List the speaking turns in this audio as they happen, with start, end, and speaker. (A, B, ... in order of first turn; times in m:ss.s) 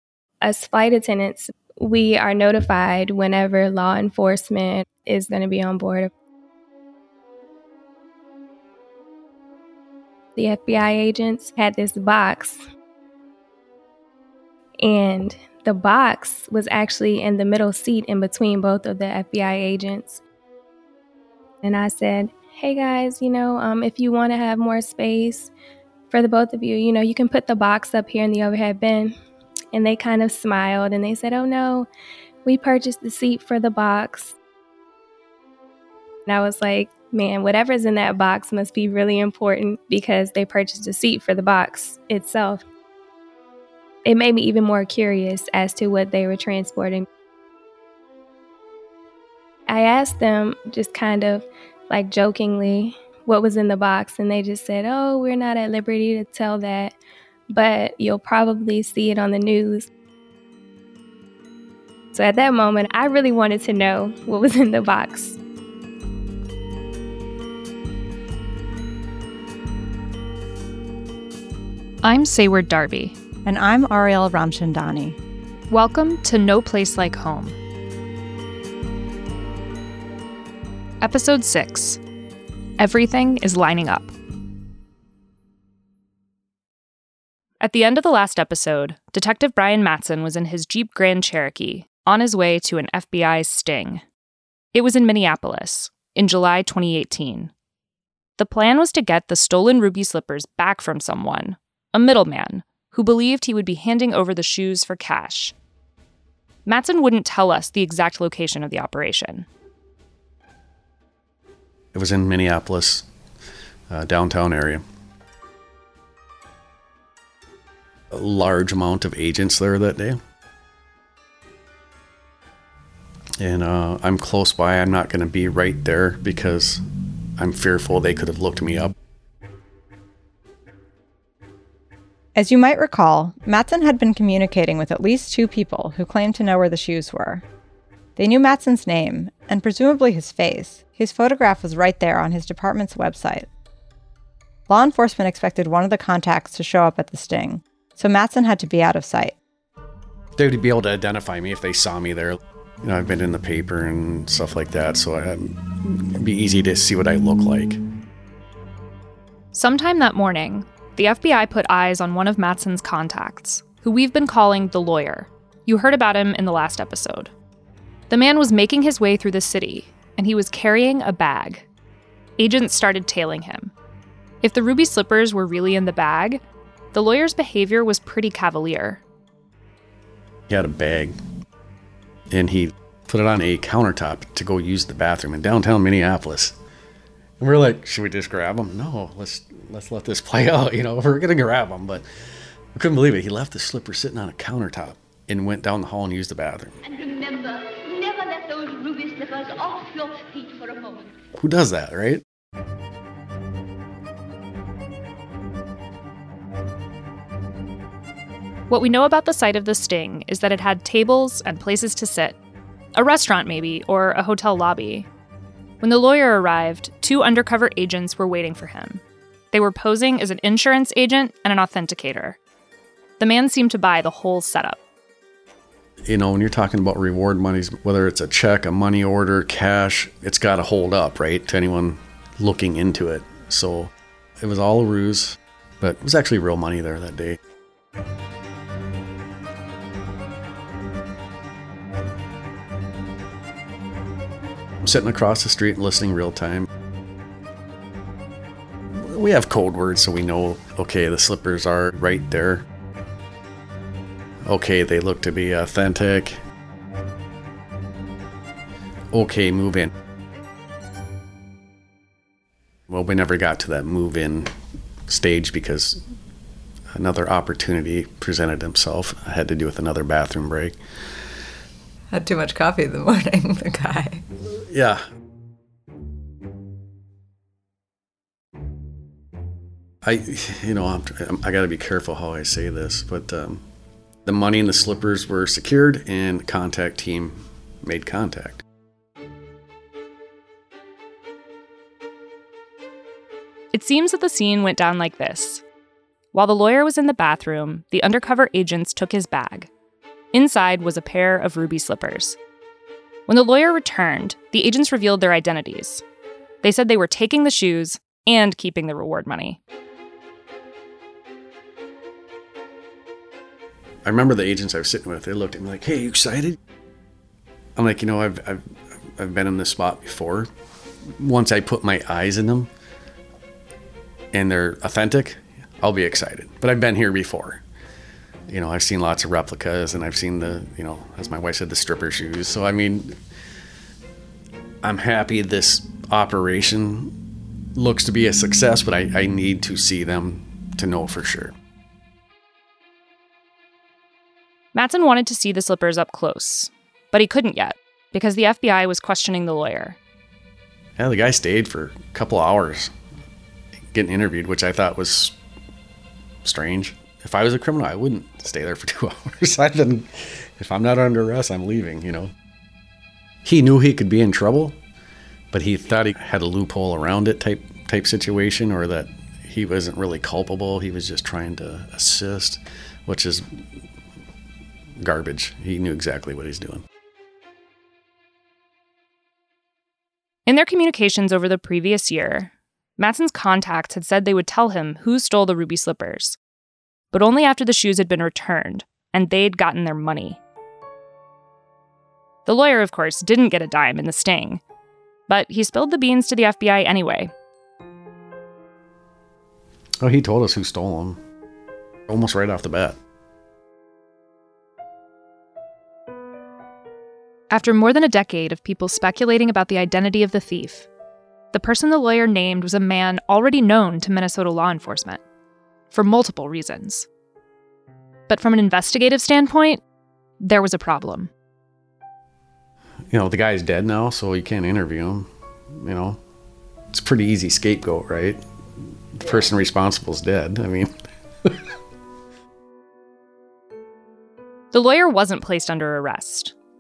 0:00.4-0:06.1 A
0:10.4-0:12.6 A
0:14.8-0:20.2 A
0:21.6-0:25.5 A
0:26.1-0:29.2 A
0:29.7-0:31.9 A
0:32.4-0:34.4 A
0:36.3-0:42.6 A
0:44.0-0:47.1 A
0:49.7-0:57.0 A
0:57.5-0:59.9 A
1:02.1-1:05.4 A
1:12.0-1:13.2 B
1:13.4-1:15.2 C
1:15.7-1:17.6 B
1:21.0-1:22.0 B
1:22.8-1:24.1 B
1:27.6-1:34.0 B
1:34.7-1:37.5 B
1:38.4-1:45.5 B
1:46.7-1:49.5 B
1:51.9-1:53.1 D
1:53.9-1:54.8 D
1:58.1-2:00.2 D
2:03.4-2:06.8 D
2:07.4-2:08.9 D
2:12.4-2:17.4 C
2:18.2-2:23.5 C
2:24.7-2:29.4 C
2:30.4-2:37.8 D
2:39.5-2:47.3 B
2:48.1-2:51.7 B
2:52.4-2:53.7 B
2:54.4-2:56.4 B
2:56.9-2:59.0 B
3:00.5-3:01.2 D
3:02.3-3:06.6 D
3:07.4-3:12.0 D
3:12.8-3:16.8 D
3:16.8-3:21.1 E
3:21.4-3:22.2 D
3:28.7-3:32.4 B
3:33.0-3:35.1 B
3:35.8-3:42.4 B
3:43.2-3:44.8 B
3:46.1-3:57.4 D
4:04.8-4:06.7 D
4:08.9-4:12.6 D
4:14.4-4:16.4 D
4:19.1-4:19.9 D
4:22.9-4:24.5 D
4:25.1-4:26.0 D
4:26.9-4:30.8 D
4:32.1-4:34.2 C
4:34.5-4:35.0 D
4:40.0-4:43.6 D
4:44.3-4:48.6 D
4:53.7-4:55.6 B
4:56.3-4:59.7 B
5:00.3-5:02.4 B
5:03.3-5:06.0 B
5:06.6-5:09.6 B
5:14.0-5:16.6 D
5:17.8-5:18.6 D
5:19.2-5:20.5 D
5:21.2-5:22.7 D
5:24.3-5:27.6 D
5:28.5-5:33.2 D
5:34.8-5:37.2 D
5:37.8-5:41.5 D
5:44.8-5:50.0 B
5:51.0-5:52.9 D
5:53.9-5:55.4 D
5:56.4-6:02.3 D
6:03.4-6:04.8 D
6:05.5-6:13.6 D
6:15.0-6:16.8 D
6:20.5-6:26.4 B
6:27.1-6:30.4 B
6:32.5-6:34.6 B
6:35.3-6:37.3 B
6:40.0-6:41.2 D
6:42.1-6:43.0 D
6:47.5-6:50.9 B
6:51.5-6:55.2 B
6:55.9-6:57.1 B
6:58.3-6:59.8 B
7:00.4-7:01.3 B
7:03.1-7:06.2 D
7:06.9-7:08.4 D
7:09.1-7:10.9 D
7:14.7-7:16.5 B